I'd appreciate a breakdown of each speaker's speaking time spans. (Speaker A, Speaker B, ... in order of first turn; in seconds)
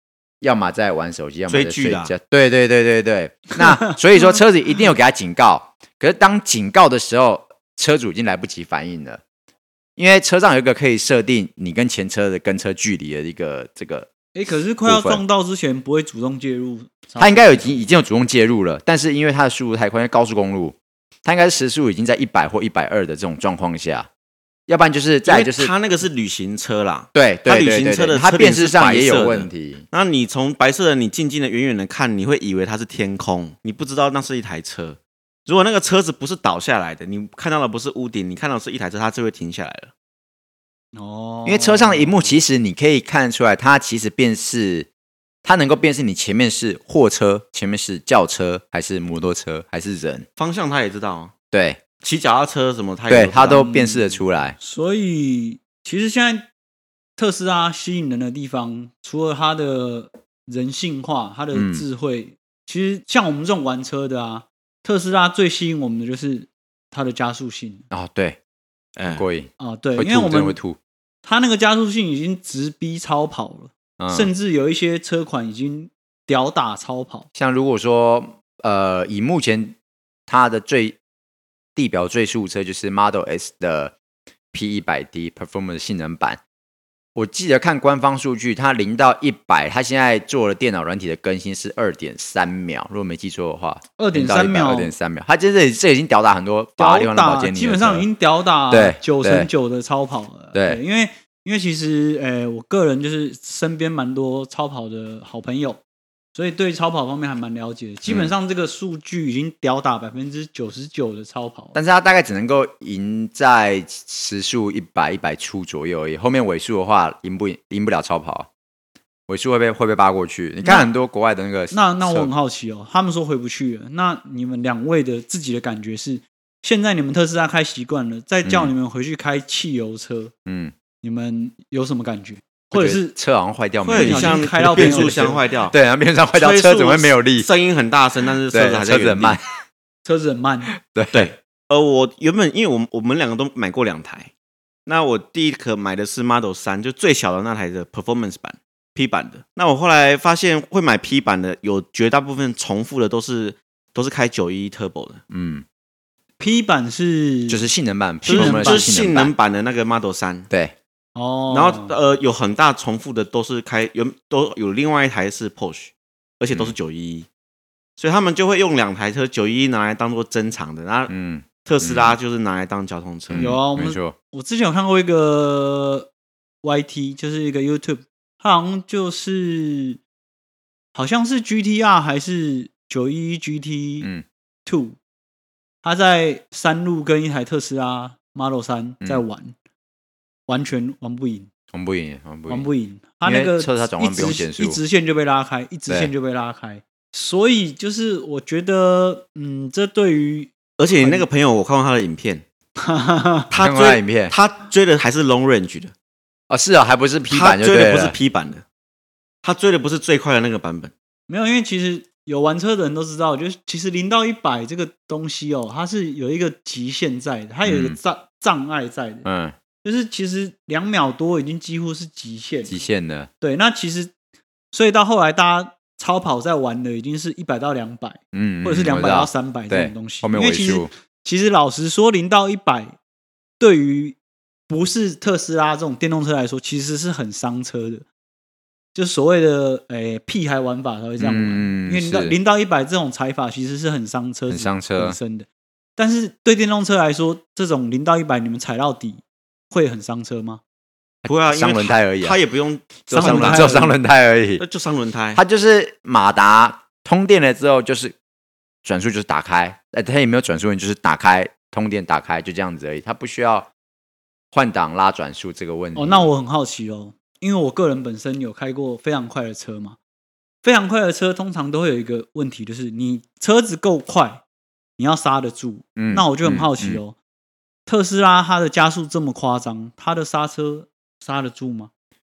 Speaker A: 0.4-9.2, 10.0-14.1, 14.8-15.2, 17.2-24.1, 24.7-25.7, 27.1-29.8, 41.4-44.9, 45.4-50.2, 51.5-51.8, 53.1-54.5, 61.5-61.8, 67.9-68.4, 69.1-70.8, 74.0-74.3, 77.3-81.0, 81.8-83.9, 84.5-86.4, 87.1-98.0, 98.7-99.5, 100.5-100.8, 108.1-108.3, 111.7-118.5, 119.3-122.3, 128.4-128.7, 130.4-130.7, 132.7-137.5, 138.5-139.4, 140.7-141.3, 155.3-155.6, 157.5-159.3, 160.5-160.7, 171.1-172.2, 173.3-174.2, 191.7-192.7, 193.2-194.8, 203.6-204.3, 206.5-208.2, 217.6-218.0, 219.2-219.6, 222.7-223.3, 228.3-230.9, 241.2-242.3, 244.5-245.2, 251.2-252.4, 253.1-254.6, 255.3-258.1, 258.8-263.7, 264.5-266.3, 275.9-277.0
Speaker B: 1.5-2.1, 25.2-39.9, 50.4-51.3, 52.0-53.7, 69.0-69.2, 133.8-135.8, 136.3-139.4, 141.1-144.3, 144.8-155.2, 158.3-160.5, 161.5-167.3, 168.0-171.1, 171.6-173.5, 200.8-202.4, 203.5-205.9, 207.3-208.6, 209.4-210.9, 251.2-253.9, 254.6-255.4
Speaker C: 14.3-17.9, 40.9-42.3, 53.6-56.5, 57.2-67.9, 69.6-70.6, 71.2-77.3, 94.0-94.9, 96.8-105.8, 106.3-111.8, 121.7-130.3, 131.0-133.2, 133.9-135.4, 140.0-140.7, 156.4-157.6, 158.2-158.9, 161.1-162.0, 173.4-176.1, 176.6-180.0, 180.9-184.1, 184.7-185.0, 185.8-189.6, 190.5-191.5, 192.5-201.2, 202.8-203.5, 211.3-219.3, 219.8-222.8, 223.4-224.1, 224.7-233.0, 233.6-234.2, 234.7-238.0, 238.9-250.6, 253.1-253.9, 265.9-270.0, 270.6-274.4, 275.0-277.1, 277.9-281.9